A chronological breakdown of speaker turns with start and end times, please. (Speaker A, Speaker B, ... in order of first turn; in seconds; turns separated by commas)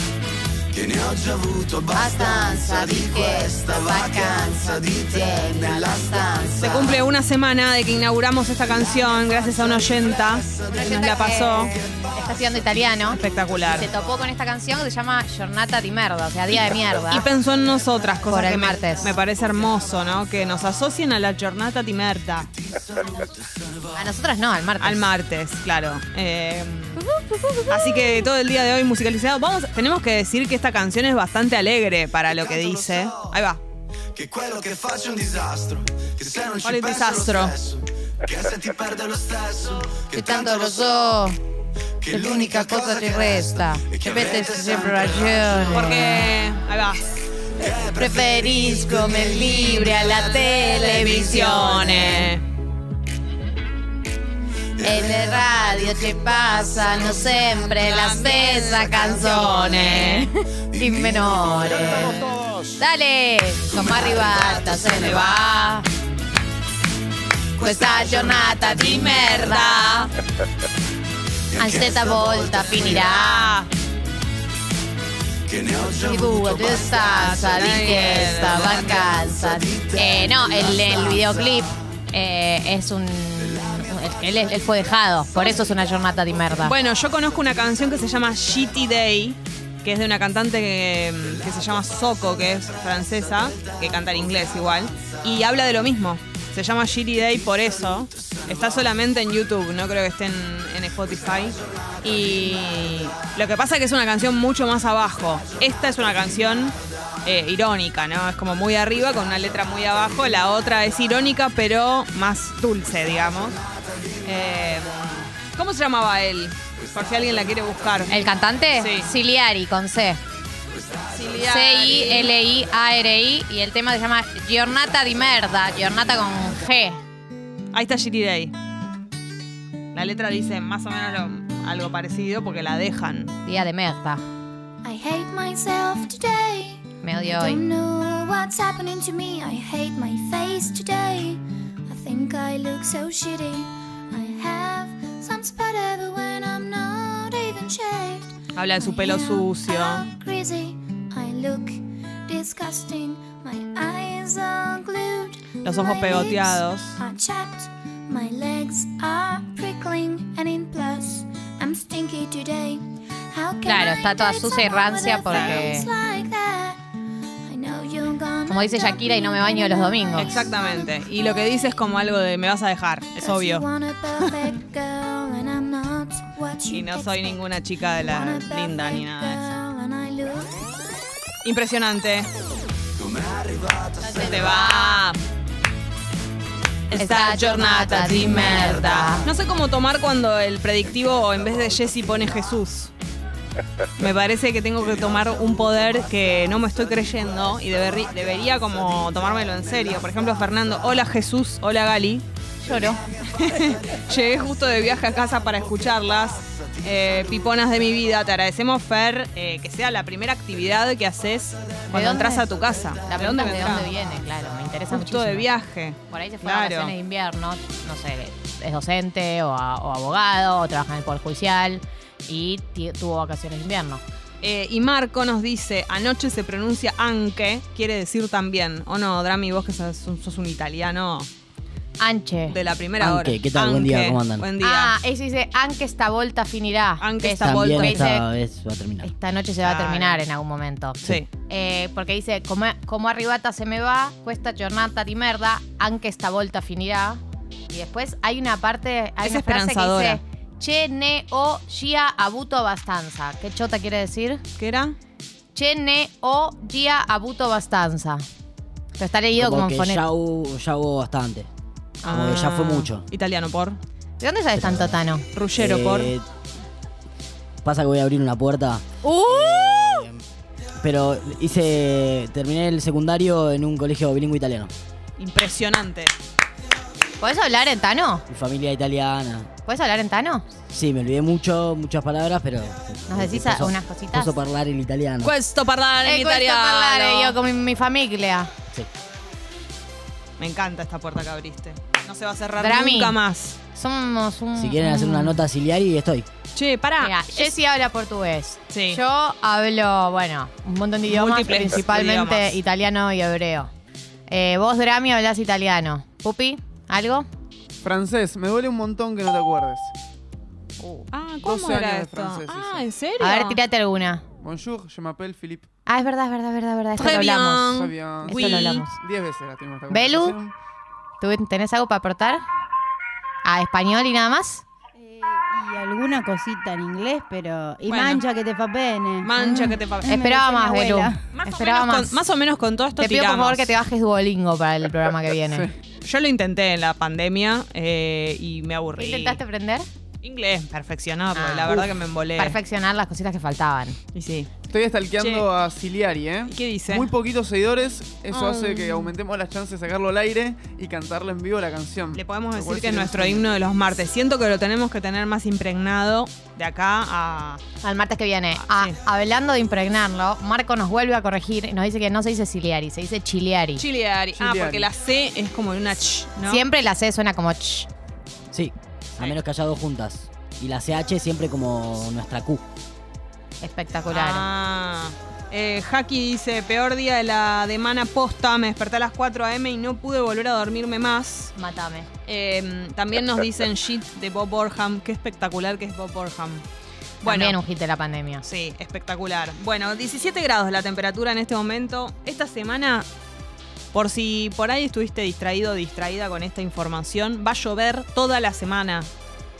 Speaker A: 0.7-7.0, Speaker B: 1.9-7.0, Speaker C: 6.6-11.7, Speaker A: 8.6-14.2, Speaker B: 10.7-17.2, Speaker C: 13.1-13.9, Speaker C: 17.1-22.5, Speaker A: 17.6-20.7, Speaker B: 18.3-19.1, Speaker A: 22.4-24.1, Speaker B: 23.9-25.1, Speaker C: 24.8-27.0, Speaker C: 27.7-33.6, Speaker A: 32.2-33.4, Speaker A: 34.1-41.0, Speaker C: 36.6-37.5, Speaker B: 40.1-41.4, Speaker A: 42.0-46.2, Speaker B: 42.1-46.3, Speaker C: 45.7-47.0, Speaker A: 47.5-51.6, Speaker B: 48.0-52.3, Speaker C: 50.6-52.4, Speaker A: 54.8-57.6, Speaker B: 54.8-62.2, Speaker C: 57.9-60.3, Speaker A: 59.0-59.8, Speaker A: 60.7-62.3, Speaker B: 62.8-65.8, Speaker A: 63.7-65.4, Speaker A: 67.6-69.0, Speaker B: 67.6-70.1, Speaker C: 68.8-70.1, Speaker A: 71.5-73.3, Speaker B: 71.6-73.6, Speaker C: 72.9-73.7, Speaker A: 75.5-81.8, Speaker B: 76.0-86.8, Speaker C: 77.4-79.0, Speaker A: 83.4-84.6, Speaker A: 85.3-85.9, Speaker C: 86.6-113.6, Speaker A: 91.3-95.2, Speaker A: 97.2-98.9, Speaker A: 101.1-103.2, Speaker A: 105.5-106.3, Speaker A: 113.5-114.8, Speaker C: 114.2-118.2, Speaker B: 118.1-120.2, Speaker C: 118.8-119.1, Speaker A: 120.8-121.4, Speaker C: 121.1-122.3, Speaker B: 121.5-127.0, Speaker C: 127.7-128.5, Speaker C: 129.9-133.3, Speaker B: 133.4-134.2, Speaker D: 134.8-166.8, Speaker B: 137.0-137.6, Speaker C: 148.6-150.1, Speaker C: 155.6-157.0, Speaker B: 163.6-165.9, Speaker C: 165.3-165.7, Speaker D: 167.4-170.9, Speaker B: 168.5-170.4, Speaker C: 170.2-174.5, Speaker D: 173.2-180.6, Speaker C: 176.7-179.6, Speaker C: 181.4-182.3, Speaker A: 183.0-184.6, Speaker B: 184.0-185.1, Speaker C: 184.1-185.2, Speaker C: 186.9-192.9, Speaker B: 186.9-189.2, Speaker A: 191.2-192.4, Speaker C: 194.0-202.2, Speaker A: 194.8-201.0, Speaker B: 202.6-203.1, Speaker A: 202.7-207.9, Speaker C: 203.3-213.9, Speaker A: 211.6-214.4, Speaker B: 211.9-215.5, Speaker C: 214.9-216.9, Speaker B: 216.1-224.0, Speaker C: 224.4-231.3, Speaker B: 232.0-232.6, Speaker C: 232.5-234.9, Speaker E: 233.0-234.4, Speaker B: 234.6-238.2, Speaker C: 237.0-238.1, Speaker E: 237.4-239.1, Speaker B: 239.0-254.4, Speaker C: 239.6-240.2, Speaker C: 241.0-241.3, Speaker C: 249.2-250.2, Speaker C: 254.6-254.9, Speaker B: 255.5-258.2, Speaker B: 259.0-260.0, Speaker E: 259.4-261.5, Speaker C: 262.0-263.8, Speaker E: 262.0-263.0, Speaker B: 264.2-265.2, Speaker E: 264.5-265.0, Speaker C: 265.3-266.1, Speaker E: 265.5-266.2, Speaker E: 267.6-270.2, Speaker B: 269.0-269.5, Speaker E: 270.8-274.7, Speaker C: 275.2-276.1, Speaker B: 277.2-278.2, Speaker E: 278.3-279.5, Speaker B: 279.6-280.4, Speaker E: 280.7-285.3, Speaker B: 283.1-284.3, Speaker C: 285.2-287.4, Speaker B: 286.0-288.5, Speaker C: 290.4-293.6, Speaker B: 292.6-293.2, Speaker B: 293.7-295.4, Speaker E: 294.6-296.3, Speaker C: 296.5-297.6, Speaker B: 297.0-303.7, Speaker C: 298.7-299.0, Speaker C: 301.1-302.6, Speaker B: 304.3-307.3, Speaker F: 307.8-309.9, Speaker C: 311.1-313.6, Speaker F: 311.4-312.9, Speaker B: 313.2-314.2, Speaker F: 314.4-315.7, Speaker B: 315.9-318.9, Speaker C: 317.0-318.9, Speaker F: 317.7-320.5, Speaker B: 319.9-320.3, Speaker B: 321.2-322.4, Speaker B: 323.4-324.6, Speaker G: 325.0-331.2, Speaker C: 327.9-328.2, Speaker C: 329.2-330.3, Speaker B: 329.4-332.1, Speaker C: 331.3-333.7, Speaker B: 333.0-335.7, Speaker F: 335.4-335.7, Speaker C: 336.0-339.4, Speaker B: 339.0-339.9, Speaker C: 340.2-342.6, Speaker B: 341.3-344.0, Speaker C: 344.1-344.5, Speaker F: 344.7-353.6, Speaker C: 345.2-345.5, Speaker C: 346.5-347.1, Speaker C: 348.3-349.1, Speaker C: 352.1-357.6, Speaker B: 357.8-363.8, Speaker C: 358.6-358.9, Speaker C: 363.8-366.6, Speaker F: 364.4-364.9, Speaker B: 366.5-367.9, Speaker E: 368.5-372.6, Speaker B: 373.6-374.4, Speaker C: 374.1-381.5, Speaker B: 381.5-382.1, Speaker C: 382.2-386.6, Speaker C: 387.2-387.6, Speaker B: 387.2-388.4, Speaker C: 388.4-393.1, Speaker C: 393.9-399.1